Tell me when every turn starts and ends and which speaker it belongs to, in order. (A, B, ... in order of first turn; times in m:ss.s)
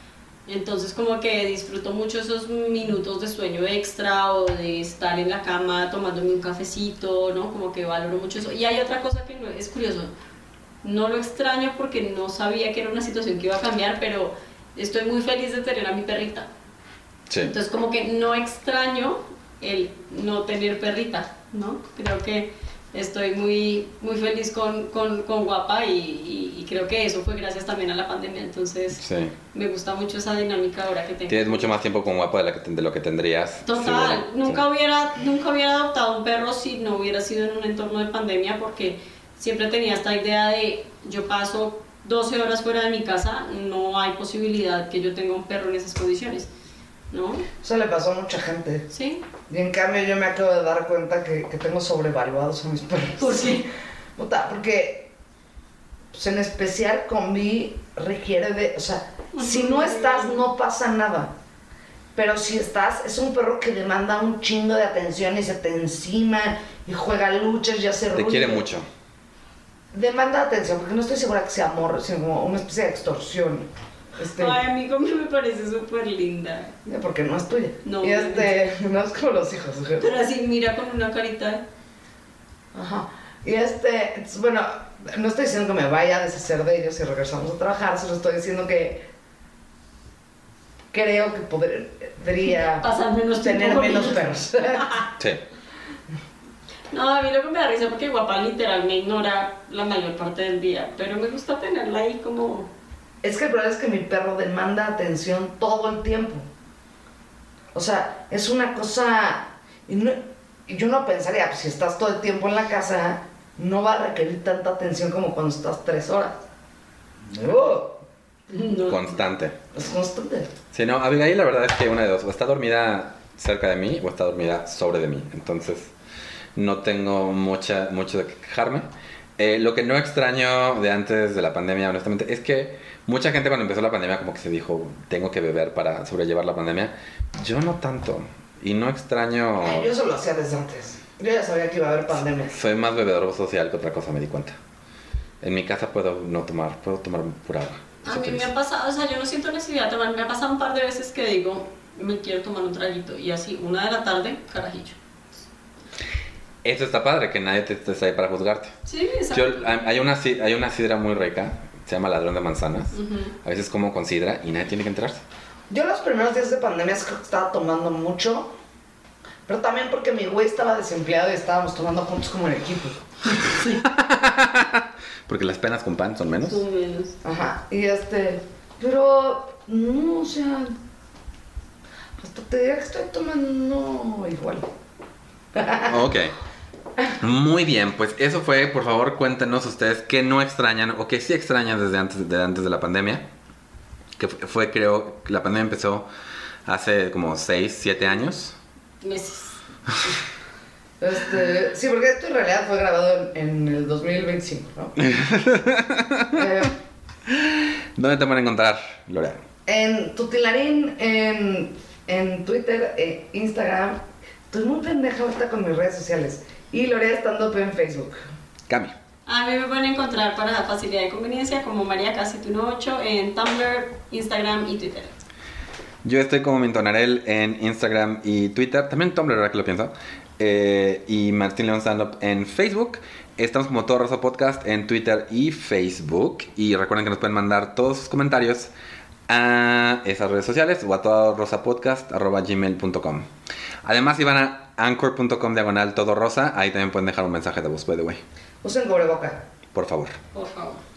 0:00.5-0:10.1 A
0:10.8-0:16.5 A
0:17.3-0:17.5 B
0:17.4-0:29.0 A
0:29.0-0:29.3 B
0:29.5-0:31.8 A
0:31.3-0:34.6 B
0:33.6-0:46.5 A
0:47.1-0:47.5 A
0:47.6-0:48.9 C
0:48.9-0:49.2 A
0:49.5-0:53.6 C
0:53.2-0:53.7 A
0:54.2-0:55.1 C
0:56.1-1:01.3 C
0:59.3-1:00.4 A
1:02.1-1:08.7 C
1:08.1-1:08.9 B
1:09.9-1:14.6 C
1:14.4-1:16.7 A
1:16.9-1:20.2 C
1:17.8-1:18.6 A
1:20.0-1:21.6 A
1:22.7-1:29.1 C
1:30.9-1:34.9 C
1:32.6-1:35.1 A
1:36.9-1:42.7 A
1:43.2-1:46.5 C
1:47.7-1:56.4 C
1:57.3-1:58.0 C
1:58.5-1:59.1 A
1:58.9-1:59.6 B
1:59.7-2:00.5 C
2:00.7-2:05.9 B
2:06.6-2:08.9 B
2:09.4-2:19.9 B
2:19.6-2:22.6 C
2:22.5-2:24.6 B
2:25.4-2:28.5 B
2:28.0-2:35.0 A
2:36.6-2:38.7 B
2:38.8-2:39.8 A
2:39.3-2:45.2 B
2:42.9-2:43.3 A
2:45.7-2:48.5 C
2:49.5-2:53.0 C
2:53.5-2:53.8 A
2:53.7-2:56.6 B
2:56.4-2:57.2 A
2:57.2-3:00.8 C
3:02.2-3:04.7 C
3:05.5-3:06.0 C
3:05.8-3:06.4 B
3:07.2-3:13.2 B
3:14.2-3:16.1 B
3:16.6-3:18.5 B
3:19.0-3:19.6 A
3:21.0-3:25.0 C
3:25.0-3:26.4 B
3:26.3-3:26.8 C
3:27.3-3:29.4 B
3:29.6-3:38.2 C
3:38.7-3:38.9 B
3:39.2-3:45.2 A
3:46.0-3:58.7 B
3:59.3-4:03.2 B
4:03.8-4:08.2 B
4:08.6-4:09.4 C
4:09.7-4:10.2 B
4:10.3-4:10.8 A